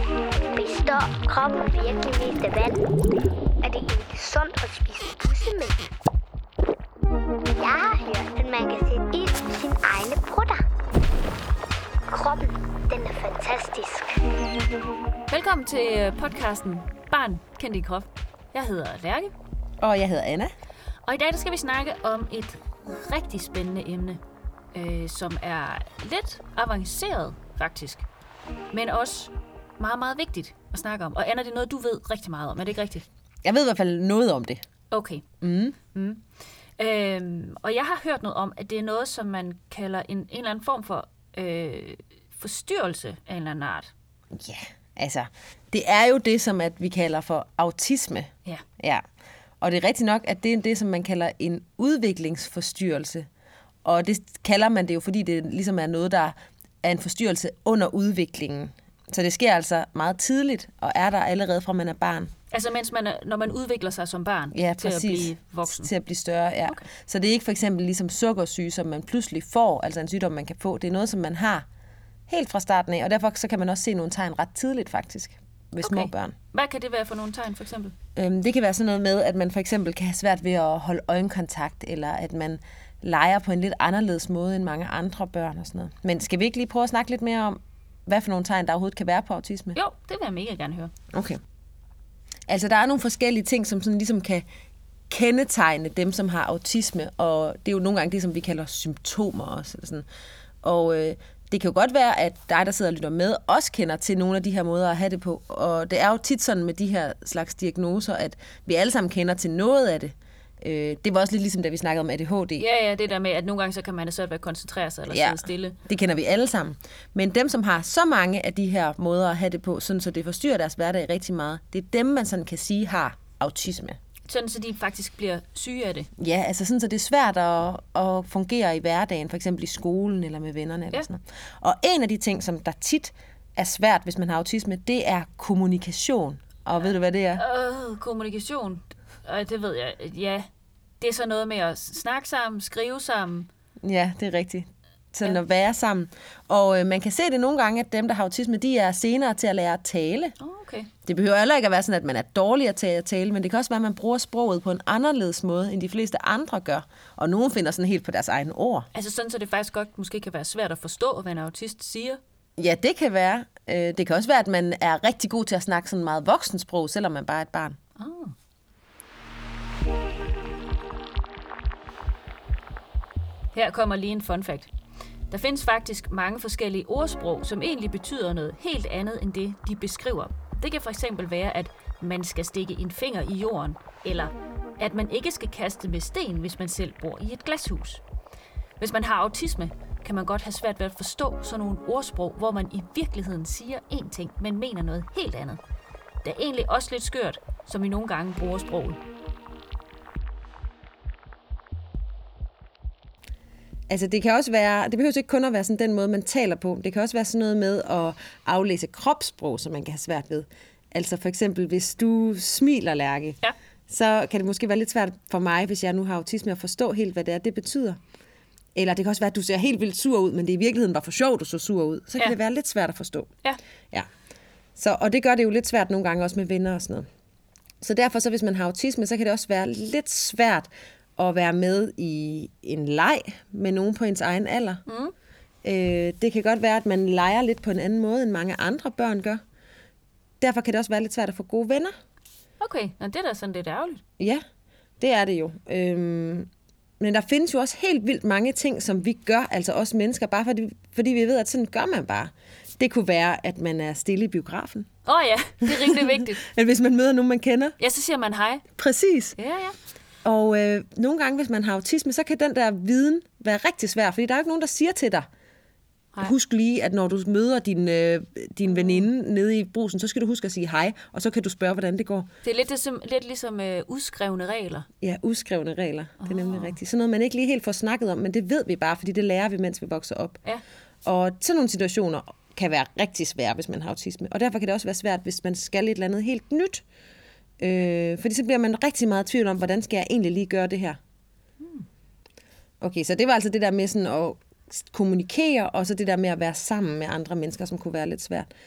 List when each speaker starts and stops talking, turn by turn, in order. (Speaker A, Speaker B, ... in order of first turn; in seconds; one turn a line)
Speaker A: 0.5-2.8
Speaker A: 3.6-5.8
Speaker A: 7.6-10.6
Speaker A: 12.1-14.2
Speaker B: 15.3-19.3
Speaker C: 19.8-20.5
Speaker B: 21.1-24.2
Speaker B: 24.7-28.1
Speaker B: 28.7-33.0
Speaker C: 33.4-34.6
Speaker B: 34.9-35.3
Speaker C: 35.4-35.8
Speaker B: 35.9-36.2
Speaker B: 36.8-43.9
Speaker C: 44.3-49.0
Speaker C: 49.6-53.3
Speaker C: 53.9-62.3
Speaker B: 62.5-65.9
Speaker C: 64.5-71.7
Speaker C: 72.3-76.3
Speaker B: 75.8-78.0
Speaker C: 78.2-89.8
Speaker B: 89.8-90.9
Speaker C: 91.1-91.4
Speaker C: 92.5-94.5
Speaker C: 95.1-100.1
Speaker C: 100.6-112.7
Speaker B: 112.6-115.8
Speaker C: 115.1-124.0
Speaker B: 124.3-126.1
Speaker C: 126.2-137.4
Speaker B: 137.3-140.5
Speaker B: 141.0-143.5
Speaker C: 143.8-150.3
Speaker B: 150.4-150.9
Speaker C: 151.1-158.9
Speaker B: 158.9-162.2
Speaker C: 162.6-167.8
Speaker B: 168.0-168.3
Speaker B: 173.5-174.7
Speaker B: 175.3-188.0
Speaker B: 188.8-195.6
Speaker B: 196.2-199.0
Speaker C: 203.9-218.0
Speaker C: 218.8-223.3
Speaker C: 224.8-227.1
Speaker C: 227.8-234.8
Speaker B: 234.9-235.1
Speaker C: 235.6-239.4
Speaker C: 240.4-241.9
Speaker B: 242.6-244.0
Speaker C: 245.0-246.5
Speaker C: 247.0-254.9
Speaker B: 255.1-256.4
Speaker C: 255.7-257.8
Speaker B: 257.8-258.7
Speaker C: 258.8-259.4
Speaker B: 259.4-259.8
Speaker C: 260.2-265.3
Speaker C: 266.2-272.3
Speaker B: 268.7-269.1
Speaker B: 272.4-274.9
Speaker C: 275.0-280.4
Speaker B: 276.2-276.8
Speaker C: 281.1-286.8
Speaker C: 287.6-291.0
Speaker B: 291.6-291.9
Speaker C: 292.8-298.5